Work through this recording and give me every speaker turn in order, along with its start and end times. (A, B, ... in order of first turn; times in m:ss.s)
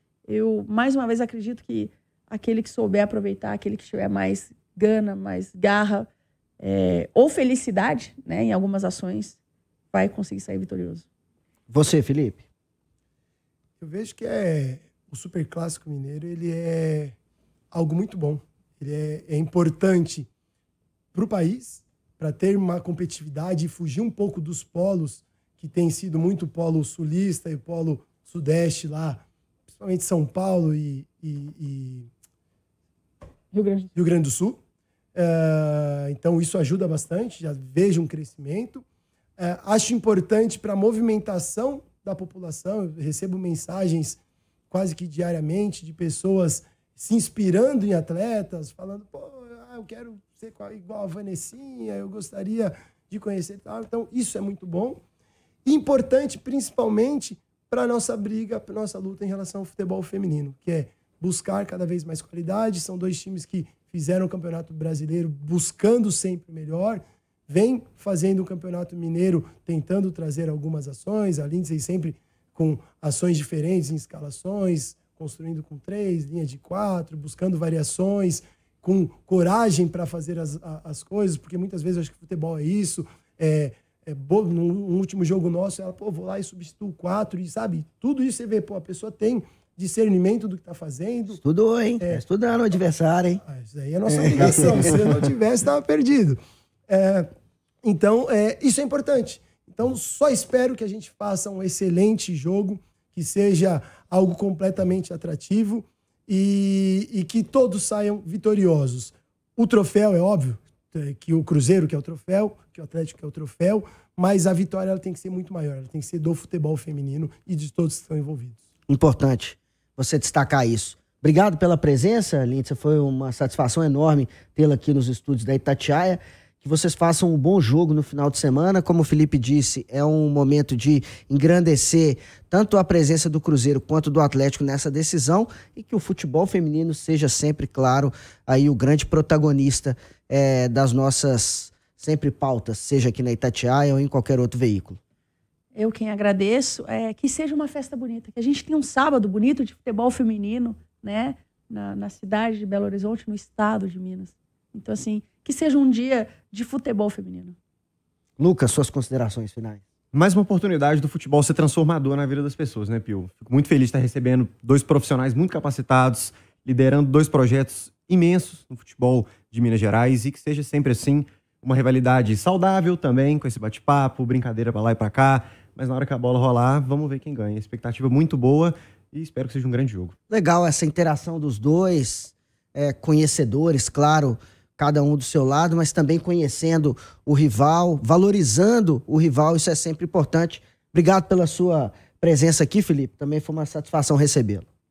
0:00.3-0:06.1 A
0:06.6-0:09.4 A
0:09.9-0:11.0 A
0:11.7-0:12.4 B
0:13.8-0:17.1 C
0:17.7-0:20.3 C
0:21.1-0:32.1 C
0:33.5-0:33.9 A
0:33.9-0:34.6 C
0:35.1-0:38.8 C
0:39.4-0:44.2 C
0:44.7-0:55.0 C
0:55.6-1:31.4 C
1:31.4-1:33.4 B
1:33.4-1:37.3 C
1:34.2-1:34.9 B
1:37.8-1:58.6 C
1:58.9-2:25.0 B
2:25.8-2:37.5 A
2:38.4-2:39.8 B
2:40.1-3:00.1 D
3:00.3-3:14.7 B